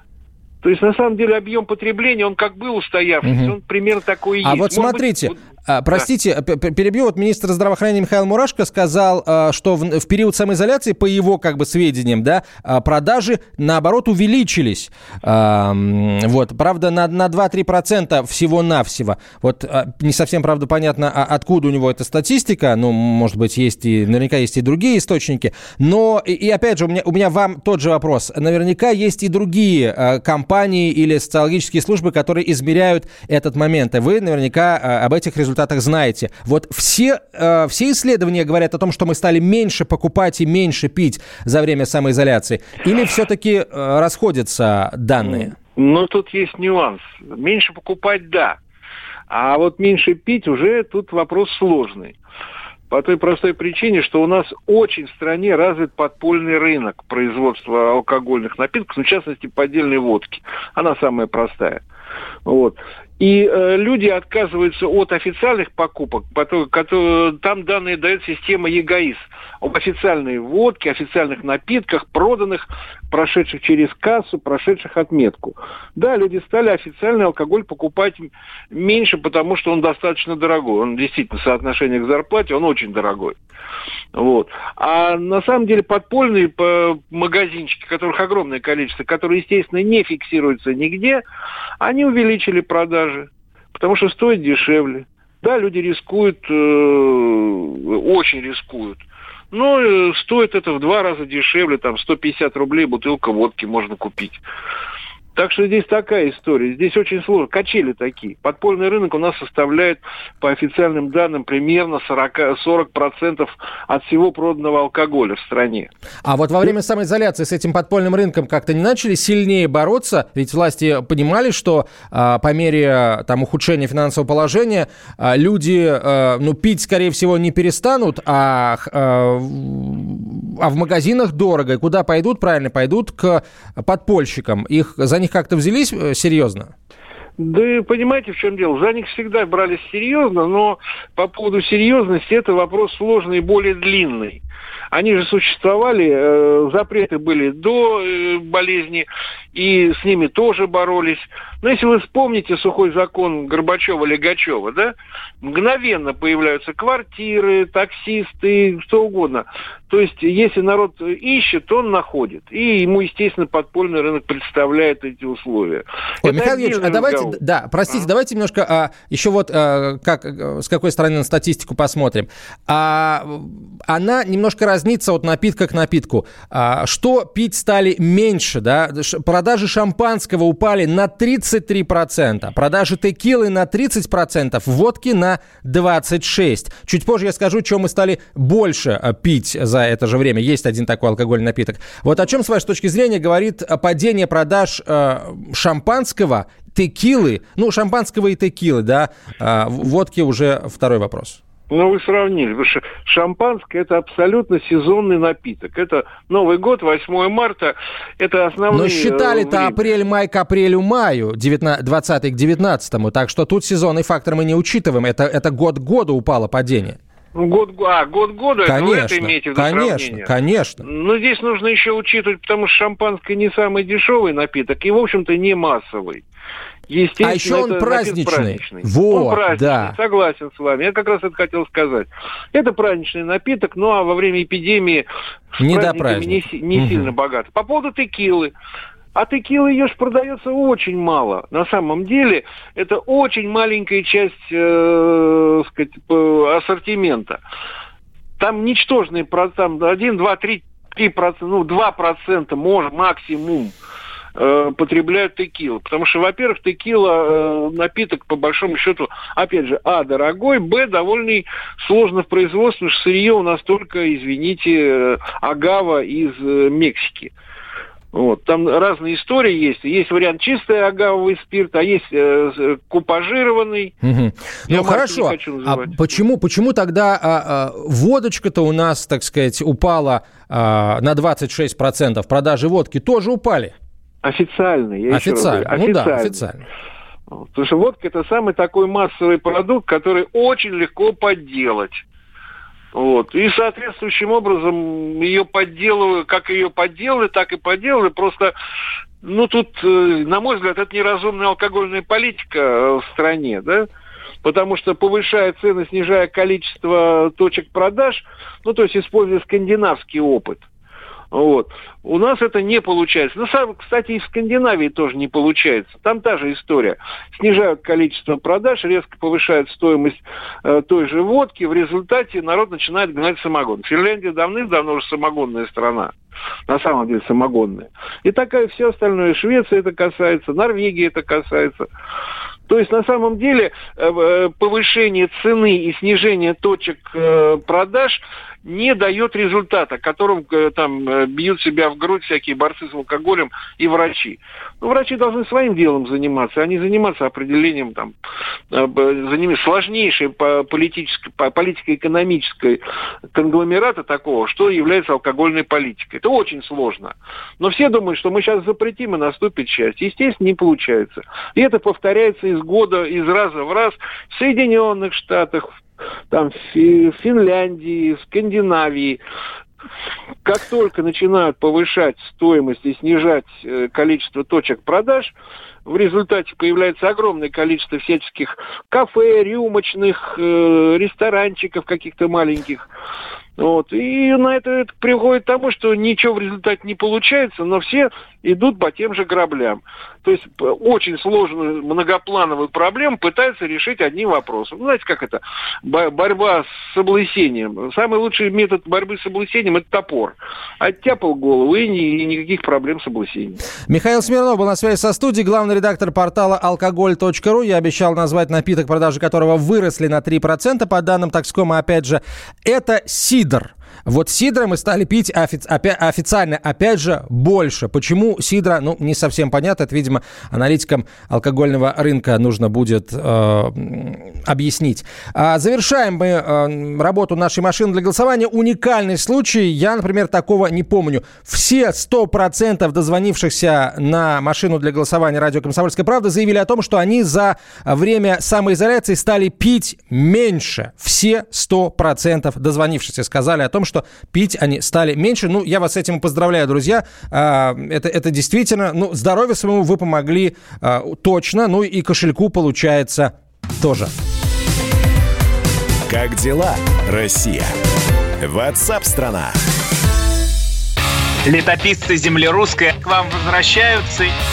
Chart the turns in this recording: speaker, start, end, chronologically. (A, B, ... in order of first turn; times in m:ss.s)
0:00.6-0:05.4 A
0:03.3-0:03.5 B
0:04.4-0:45.6 B
0:45.2-0:48.6 A
0:49.3-0:52.2 A
0:52.9-1:01.8 A
1:02.4-1:23.4 A
1:24.1-1:31.2 A
1:31.8-1:44.4 A
1:45.4-1:55.9 A
1:56.2-2:16.7 B
2:17.4-2:48.1 A
2:46.2-3:21.4 B
3:21.7-3:29.8 A
3:28.7-3:37.0 B
3:37.4-3:46.2 A
3:38.6-3:40.8 B
3:46.9-3:55.1 A
3:47.2-3:49.9 B
3:55.6-3:58.5 A
3:55.6-3:57.1 B
3:59.1-4:07.4 A
4:08.4-4:13.8 A
4:14.4-4:27.3 A
4:28.1-4:33.9 A
4:34.0-4:43.7 B
4:34.7-4:36.2 A
4:44.2-4:46.4 A
4:45.1-4:46.6 B
4:47.3-4:52.0 A
4:52.9-4:58.5 A
4:59.2-5:03.9 A
5:04.4-5:10.6 A
5:11.3-5:26.1 A
5:26.7-5:31.9 A
5:32.7-5:48.1 A
5:48.7-5:52.8 A
5:53.3-6:05.8 A
6:06.3-6:09.2 A
6:10.4-6:15.3 A
6:15.9-6:22.9 A
6:23.6-6:43.6 A
6:43.9-7:34.1 B
7:36.1-7:37.7 C
7:38.4-7:39.6 C
7:41.4-7:44.3 D